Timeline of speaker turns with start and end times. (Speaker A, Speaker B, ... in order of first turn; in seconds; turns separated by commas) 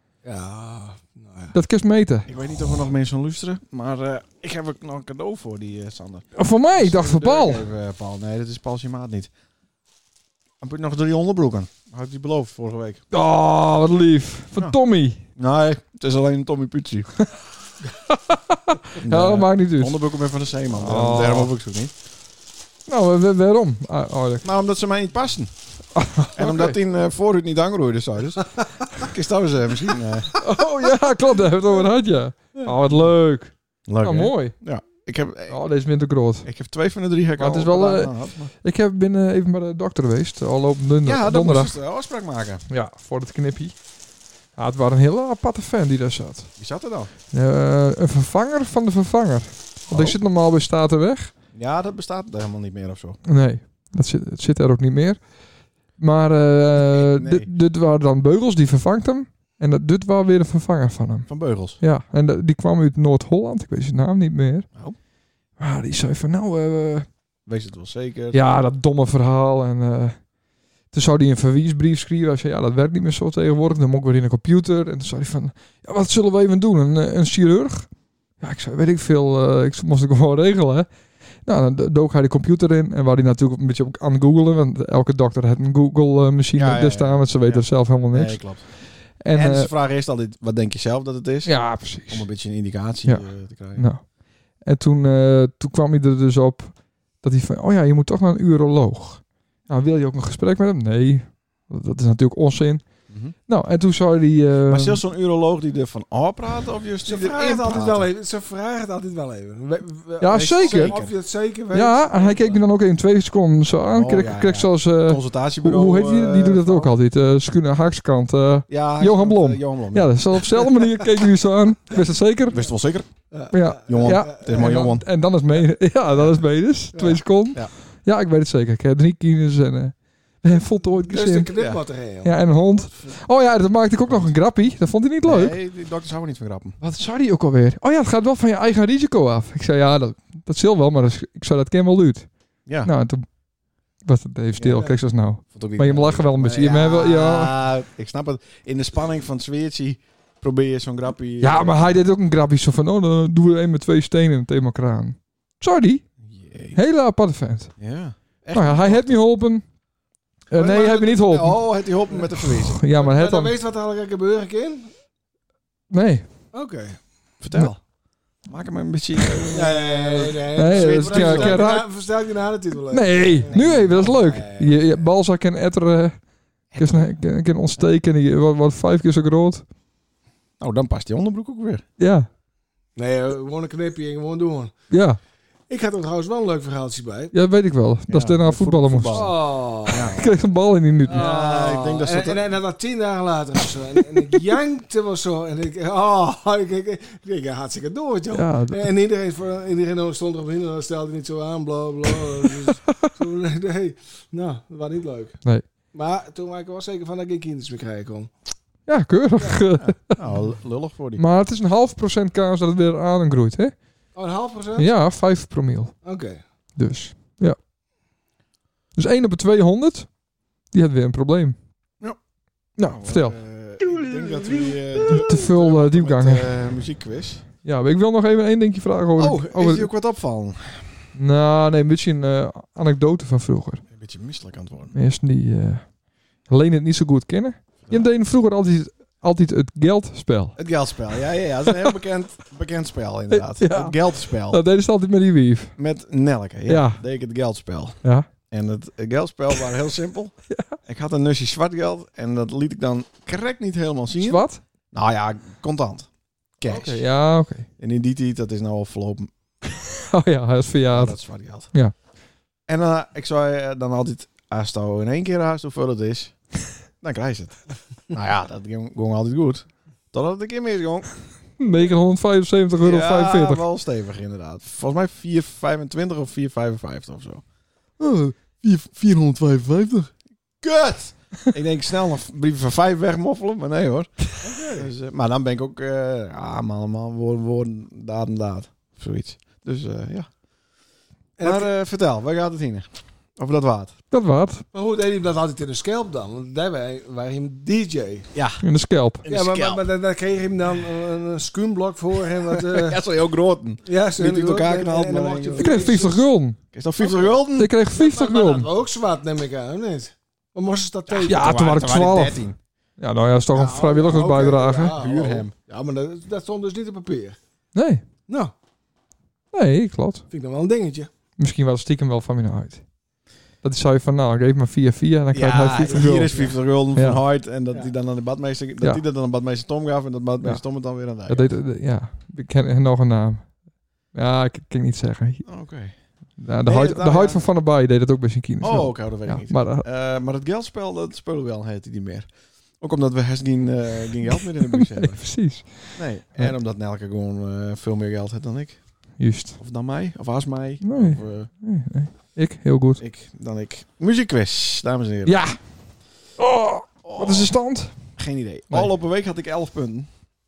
Speaker A: 0.2-1.5, Speaker B: 1.5-2.3, Speaker C: 2.3-9.3, Speaker B: 6.3-7.6, Speaker C: 10.6-13.0, Speaker B: 13.1-15.2, Speaker C: 15.3-17.1, Speaker B: 18.1-20.0, Speaker C: 19.0-21.9, Speaker B: 20.7-21.5, Speaker B: 22.9-24.4, Speaker C: 24.4-25.5, Speaker B: 25.9-26.8, Speaker C: 26.4-30.4, Speaker B: 30.4-34.6, Speaker C: 33.9-35.6, Speaker B: 35.5-36.5, Speaker C: 36.4-38.5, Speaker B: 37.4-41.7, Speaker C: 41.0-42.6, Speaker B: 42.7-43.8, Speaker B: 44.6-46.5, Speaker C: 46.6-47.1, Speaker B: 47.3-51.3, Speaker C: 49.9-50.2, Speaker C: 51.5-53.2, Speaker B: 53.3-55.2, Speaker B: 56.0-64.7, Speaker C: 56.8-57.5, Speaker C: 61.3-61.8, Speaker B: 65.6-67.1, Speaker C: 67.5-68.4, Speaker B: 68.3-70.2, Speaker B: 70.9-77.9, Speaker B: 78.4-80.9, Speaker B: 81.4-89.7, Speaker C: 86.5-93.9, Speaker B: 91.5-92.3, Speaker B: 93.0-94.1, Speaker B: 94.6-105.0, Speaker C: 103.1-103.3, Speaker C: 104.7-108.0, Speaker A: 107.0-112.6, Speaker B: 110.2-111.0, Speaker C: 110.3-111.1, Speaker B: 111.7-122.6, Speaker C: 113.9-116.9, Speaker C: 118.7-120.2, Speaker C: 122.5-123.1, Speaker A: 123.3-124.8, Speaker B: 123.5-131.6, Speaker C: 123.9-125.0, Speaker A: 126.9-127.2, Speaker A: 131.0-133.2, Speaker C: 131.6-131.8, Speaker B: 132.2-135.6, Speaker C: 134.1-134.3, Speaker C: 135.2-136.8, Speaker B: 136.8-142.3, Speaker B: 142.8-143.2, Speaker B: 144.0-147.5, Speaker A: 144.6-144.9, Speaker C: 145.4-152.0, Speaker B: 151.4-156.1, Speaker C: 156.2-156.8, Speaker B: 156.7-157.8, Speaker C: 157.8-159.2, Speaker B: 158.5-159.6, Speaker B: 160.5-161.8, Speaker C: 160.5-162.8, Speaker B: 162.4-163.5, Speaker A: 162.9-164.9, Speaker B: 165.9-166.2, Speaker A: 166.5-167.0, Speaker C: 167.4-167.8, Speaker C: 168.4-171.6, Speaker B: 169.2-169.5, Speaker A: 169.5-175.1, Speaker B: 170.6-171.9, Speaker B: 172.9-176.2, Speaker C: 173.5-173.8, Speaker C: 176.7-177.2, Speaker B: 176.8-179.6, Speaker C: 180.6-181.8, Speaker B: 182.0-182.3, Speaker A: 182.9-184.7, Speaker B: 184.9-185.2, Speaker A: 185.7-187.3, Speaker B: 187.3-189.4, Speaker C: 188.1-190.2, Speaker A: 189.1-190.3, Speaker B: 190.0-191.2, Speaker A: 191.1-205.4, Speaker C: 191.1-192.5, Speaker B: 198.3-198.9, Speaker A: 205.9-208.3, Speaker B: 208.9-210.2, Speaker C: 209.8-211.2, Speaker B: 211.2-213.7, Speaker A: 214.1-214.9, Speaker B: 214.8-215.9, Speaker A: 216.0-216.4, Speaker B: 216.8-217.6, Speaker B: 218.9-220.1, Speaker B: 220.7-221.5, Speaker B: 222.8-223.3, Speaker C: 222.8-227.4, Speaker B: 225.1-226.5, Speaker B: 227.6-229.9, Speaker C: 229.2-231.0, Speaker B: 231.2-233.8, Speaker C: 233.9-234.9, Speaker B: 234.9-240.6, Speaker C: 240.6-244.6, Speaker B: 241.7-241.9, Speaker B: 243.3-245.8, Speaker C: 245.8-250.3, Speaker B: 246.7-247.0, Speaker B: 250.5-250.8, Speaker C: 250.8-256.1, Speaker B: 254.2-254.6, Speaker C: 256.6-257.1, Speaker B: 256.7-257.7, Speaker C: 257.8-259.3, Speaker B: 259.9-261.9, Speaker C: 260.9-261.7, Speaker C: 262.7-266.4, Speaker C: 267.0-271.1, Speaker B: 271.6-273.6, Speaker C: 272.8-277.4, Speaker C: 278.0-290.3, Speaker A: 284.4-284.9, Speaker A: 291.4-291.7, Speaker C: 291.4-293.9, Speaker B: 294.1-294.6, Speaker A: 294.7-298.3, Speaker C: 298.3-298.6, Speaker B: 298.6-299.2, Speaker C: 299.2-299.9, Speaker A: 299.3-303.0, Speaker C: 302.5-306.0, Speaker A: 303.8-306.2, Speaker B: 305.6-306.6, Speaker C: 306.7-307.7, Speaker A: 307.0-307.4, Speaker B: 307.6-308.7, Speaker A: 307.9-311.5, Speaker C: 311.1-312.6, Speaker B: 311.2-312.4, Speaker B: 313.0-315.0, Speaker A: 313.5-317.4, Speaker C: 314.9-315.5, Speaker B: 317.7-318.0, Speaker A: 318.3-318.5, Speaker B: 319.5-320.2, Speaker A: 320.3-321.1, Speaker B: 321.4-322.8, Speaker B: 323.6-327.2, Speaker C: 325.3-331.5, Speaker A: 325.9-326.6, Speaker B: 331.1-333.6, Speaker B: 334.1-335.5, Speaker C: 335.4-335.9, Speaker B: 336.4-339.8, Speaker C: 336.7-337.4, Speaker A: 336.8-337.3, Speaker C: 338.6-342.3, Speaker C: 342.8-345.2, Speaker B: 344.3-346.5, Speaker C: 345.9-348.8, Speaker B: 349.2-349.6, Speaker C: 349.6-351.5, Speaker B: 350.8-353.0, Speaker C: 353.0-355.4, Speaker B: 355.2-355.6, Speaker B: 356.4-357.9, Speaker C: 357.0-357.5, Speaker C: 358.2-360.1